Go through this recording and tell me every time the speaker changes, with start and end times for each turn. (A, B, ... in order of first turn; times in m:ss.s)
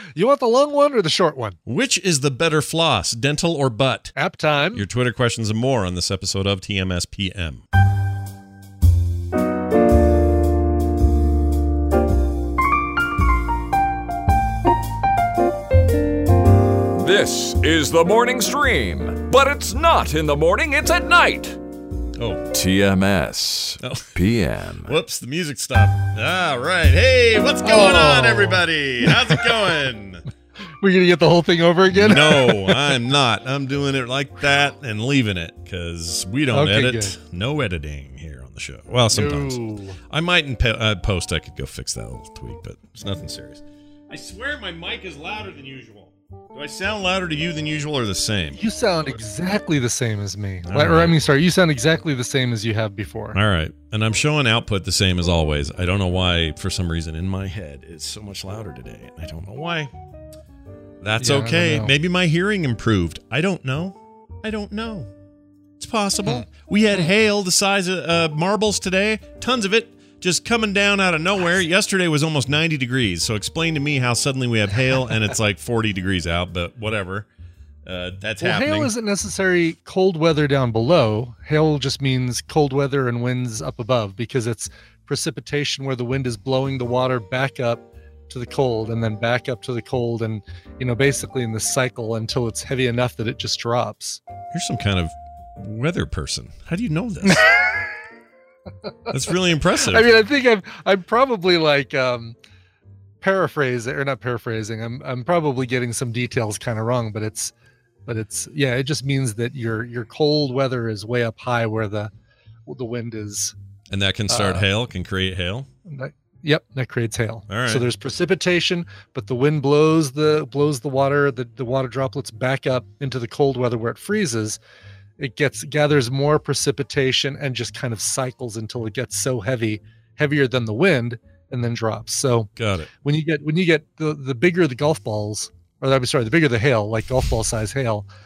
0:00.1-0:01.6 A
0:01.7-0:04.1 B
0:04.1-0:04.8 A
0:04.7-0:07.6 B
0:17.0-0:21.6 C
0:22.2-0:22.5 B
0:22.5-0:24.9 C
0:23.8-0:24.1 B
0:24.8-0:30.2 B
0:27.6-0:29.4 A
0:30.8-0:33.0 A
0:31.9-0:39.6 B
0:36.5-0:37.2 A
0:39.1-0:40.0 A
0:40.1-0:48.6 B
0:48.5-0:53.4 A
0:50.6-0:51.2 B
0:53.3-0:59.9 B
1:01.0-1:05.1 B
1:01.2-1:01.9 A
1:05.8-1:17.3 B
1:17.8-1:18.9 B
1:18.4-1:34.2 A
1:34.5-1:37.5 B
1:37.2-1:37.8 A
1:38.8-1:42.4 A
1:39.1-1:40.0 B
1:43.2-1:47.5 A
1:48.1-1:52.1 A
1:52.7-1:53.6 A
1:53.9-1:55.7 B
1:54.3-1:54.7 A
1:55.9-2:04.6 A
1:57.5-1:57.9 B
2:05.2-2:18.1 A
2:12.6-2:12.9 B